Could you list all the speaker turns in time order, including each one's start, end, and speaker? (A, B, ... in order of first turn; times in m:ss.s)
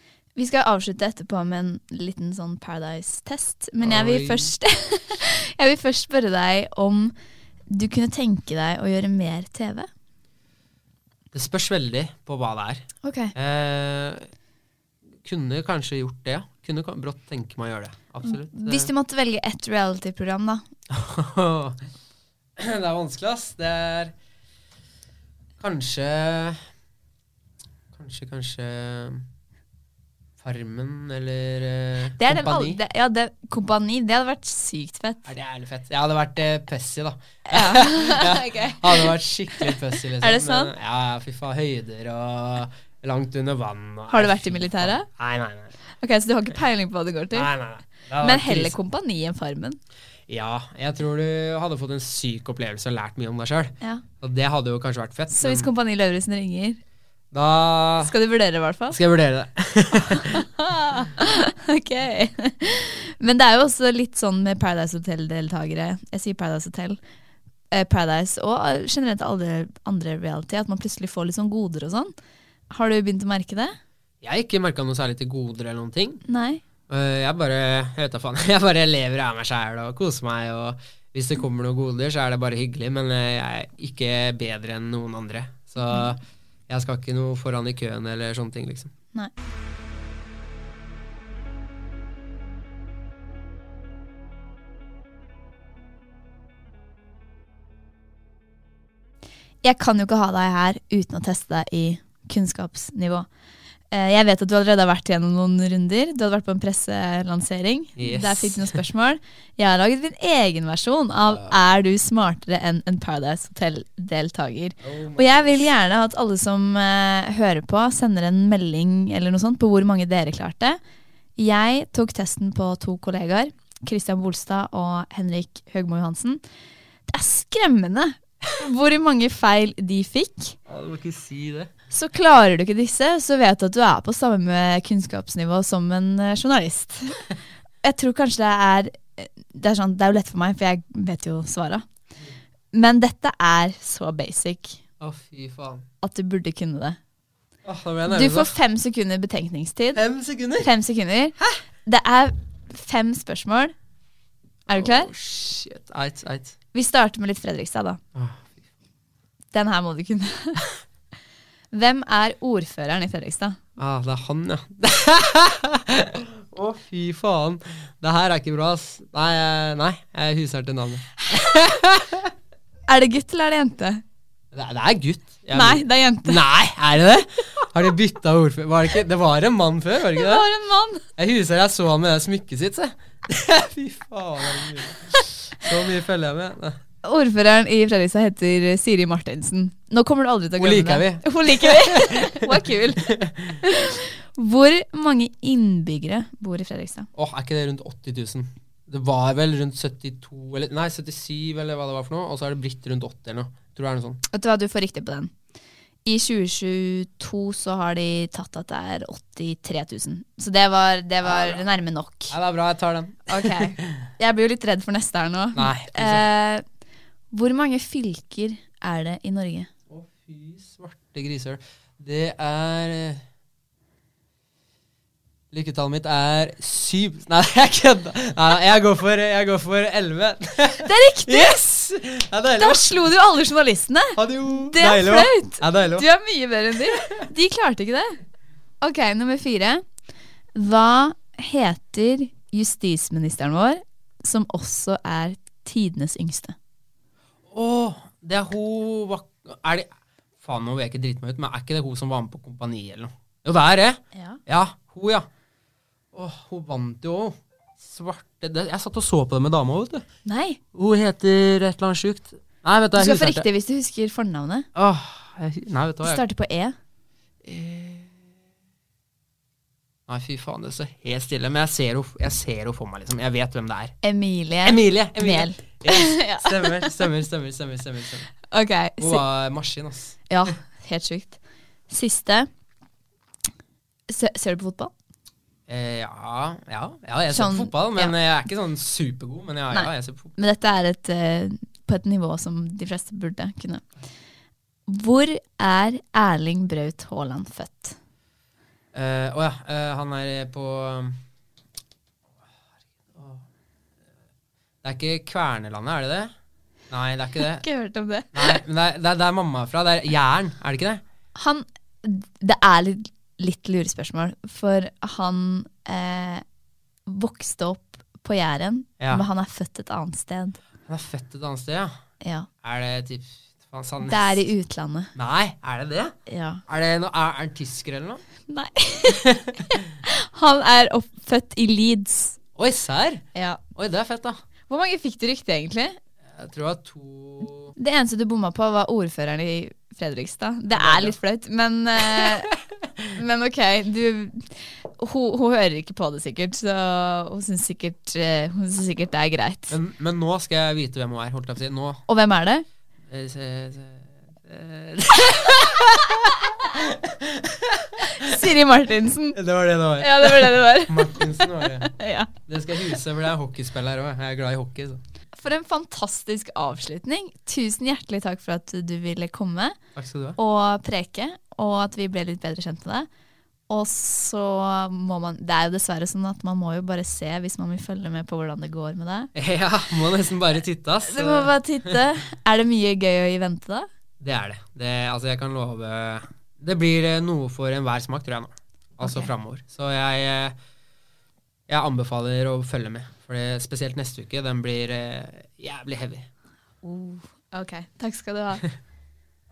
0:00.4-0:07.1 A
0:03.8-0:04.5 B
0:07.7-0:09.9 A
0:11.3-0:14.3 B
0:13.0-0:13.3 A
0:15.2-0:18.9 B
0:18.2-0:20.6 A
0:20.9-0:21.8 B
0:22.6-0:24.1 B
0:25.6-0:26.6 B
0:27.9-0:29.2 B
0:30.4-0:32.8 B
0:32.2-0:35.3 A
0:35.3-0:45.8 B
0:37.5-0:39.1 A
0:39.7-0:40.7 A
0:44.1-0:45.1 A
0:46.0-0:47.5 A
0:47.3-0:48.7 B
0:48.2-0:49.8 A
0:50.3-0:55.7 B
0:55.3-0:56.8 A
0:57.3-0:58.1 B
0:58.0-0:59.0 A
0:58.9-1:00.4 B
1:00.1-1:07.0 A
1:07.7-1:12.1 A
1:12.7-1:13.8 A
1:14.2-1:16.2 B
1:16.3-1:16.6 A
1:16.9-1:28.9 B
1:25.8-1:26.2 A
1:39.6-1:43.3 A
1:43.9-2:00.8 A
1:48.0-1:48.8 B
1:54.8-1:55.6 B
2:01.4-2:06.4 A
2:07.1-2:10.6 A
2:10.7-2:11.7 B
2:11.9-2:17.3 A
2:17.8-2:21.8 A
2:22.7-2:24.8 A
2:25.0-2:25.8 B
2:26.0-2:27.0 A
2:27.6-2:28.5 B
2:28.1-2:30.0 A
2:29.9-2:30.7 B
2:30.6-2:31.3 A
2:31.8-2:33.7 A
2:34.7-2:35.1 A
2:34.7-2:36.6 B
2:36.7-2:38.0 A
2:38.1-2:38.6 B
2:39.5-2:40.6 A
2:41.7-2:43.6 A
2:43.8-2:52.3 B
2:52.9-2:54.0 A
2:54.5-3:00.4 B
2:55.5-2:56.4 A
3:00.2-3:01.0 A
3:01.2-3:06.8 B
3:07.0-3:17.1 A
3:10.6-3:13.6 B
3:17.1-3:24.2 B
3:24.3-3:25.3 A
3:26.0-3:32.3 A
3:31.2-3:31.6 B
3:32.3-3:34.1 B
3:33.3-3:36.6 A
3:35.6-3:36.2 B
3:37.3-3:39.7 A
3:39.9-3:43.2 B
3:45.5-3:52.9 B
3:50.8-3:51.6 A
3:52.6-3:54.2 A
3:54.1-3:56.1 B
3:54.7-3:58.2 A
3:58.8-3:59.8 A
4:00.5-4:06.6 A
4:07.5-4:09.9 B
4:10.4-4:15.2 B
4:14.1-4:14.4 A
4:16.1-4:20.0 B
4:20.2-4:20.6 A
4:20.7-4:23.4 B
4:23.0-4:24.7 A
4:24.8-4:26.2 B
4:26.0-4:26.8 A
4:27.4-4:28.1 B
4:30.1-4:34.0 B
4:34.0-4:36.9 A
4:34.6-4:38.4 B
4:38.5-4:39.2 A
4:39.0-4:40.2 B
4:40.3-4:42.5 A
4:44.1-4:44.9 A
4:45.7-4:50.3 B
4:47.3-4:48.1 A
4:49.7-4:53.8 A
4:54.9-4:58.0 A
4:58.9-5:01.2 B
5:03.1-5:03.4 B
5:04.8-5:06.3 B
5:06.9-5:07.6 B
5:07.5-5:08.6 A
5:08.3-5:11.0 B
5:11.4-5:16.4 A
5:17.0-5:20.6 A
5:19.0-5:19.2 B
5:20.9-5:22.0 B
5:22.2-5:22.5 A
5:22.6-5:24.5 B
5:24.0-5:25.1 A
5:25.1-5:26.1 B
5:26.3-5:26.6 A
5:26.7-5:28.2 B
5:28.5-5:29.2 A
5:29.2-5:29.8 B
5:29.7-5:32.4 A
5:32.6-5:34.4 B
5:33.3-5:33.6 A
5:34.7-5:36.0 A
5:36.3-5:37.7 B
5:37.8-5:42.5 A
5:40.7-5:41.1 B
5:43.1-5:49.8 A
5:49.7-5:52.0 B
5:52.1-5:52.6 A
5:53.1-5:58.4 B
5:58.1-5:59.4 A
5:59.3-6:01.9 B
6:00.0-6:02.3 A
6:02.4-6:05.0 B
6:05.3-6:09.8 A
6:10.0-6:10.4 B
6:10.4-6:13.1 A
6:13.7-6:19.3 A
6:19.3-6:21.9 B
6:21.0-6:23.9 A
6:24.2-6:30.6 B
6:29.0-6:29.3 A
6:31.7-6:36.3 B
6:36.8-6:38.6 A